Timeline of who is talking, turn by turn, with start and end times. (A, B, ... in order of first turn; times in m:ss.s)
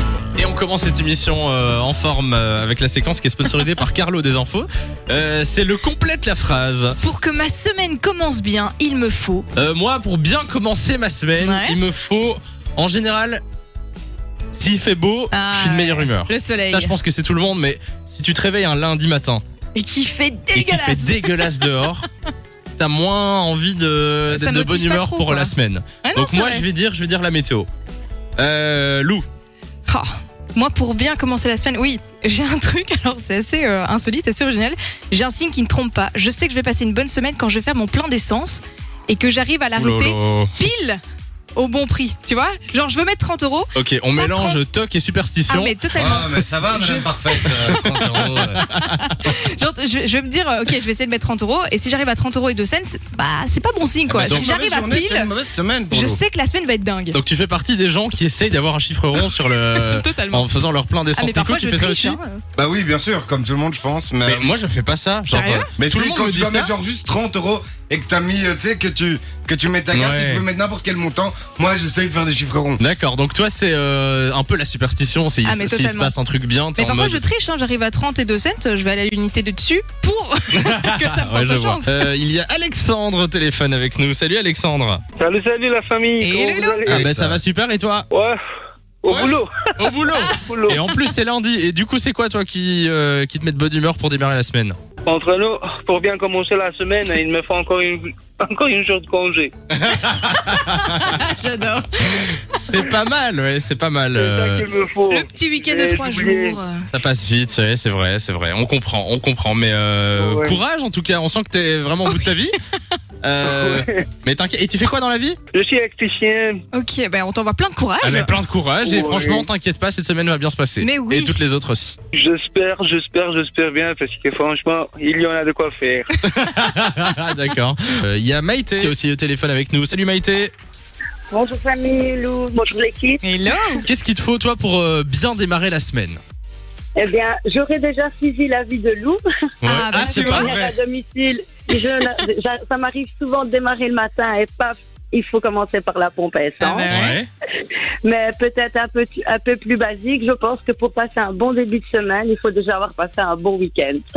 0:00.4-0:07.0 A
0:07.0-0:09.5 B
0:09.6-0:13.4 A
0:11.4-0:11.8 B
0:14.5-0:19.4 A
0:15.3-0:16.9 B
0:19.7-0:21.7 B
0:20.5-0:22.0 A
0:22.8-0:27.7 A
0:24.3-0:26.6 B
0:28.4-0:29.2 A
0:29.8-0:41.0 B
0:39.8-0:40.5 A
0:41.5-0:44.6 B
0:43.8-0:48.8 A
0:45.5-0:46.3 B
0:46.0-0:48.6 C
0:48.6-0:55.3 B
0:54.1-0:56.2 C
0:54.2-0:54.5 A
0:55.9-0:57.2 B
0:57.1-1:02.2 A
0:59.2-1:00.5 B
1:01.1-1:02.4 B
1:02.6-1:04.5 C
1:04.2-1:06.7 A
1:05.3-1:05.7 B
1:05.8-1:12.8 C
1:09.9-1:10.4 A
1:12.8-1:17.2 A
1:15.4-1:16.1 B
1:16.8-1:22.0 B
1:20.6-1:25.0 A
1:25.2-1:27.4 D
1:26.2-1:27.0 B
1:26.8-1:28.1 A
1:28.1-1:28.4 D
1:29.0-1:30.8 D
1:29.0-1:34.8 A
1:30.1-1:31.0 B
1:35.0-1:39.5 D
1:39.7-1:40.8 A
1:40.2-1:42.8 B
1:42.5-1:44.7 A
1:44.1-1:46.6 D
1:45.1-1:46.8 B
1:46.9-1:52.5 A
1:50.2-1:50.6 D
1:53.2-1:55.4 A
1:53.4-1:54.0 D
1:55.5-1:56.6 D
1:56.7-1:58.3 B
1:58.0-2:02.0 A
1:58.8-1:59.5 D
2:00.8-2:01.4 B
2:02.1-2:06.1 D
2:06.2-2:10.5 A
2:11.3-2:13.2 E
2:13.2-2:13.8 B
2:13.9-2:16.2 A
2:17.0-2:19.2 E
2:19.6-2:20.8 A
2:19.6-2:20.5 B
2:20.0-2:26.9 E
2:26.6-2:27.2 B
2:26.9-2:27.3 A
2:28.0-2:34.0 E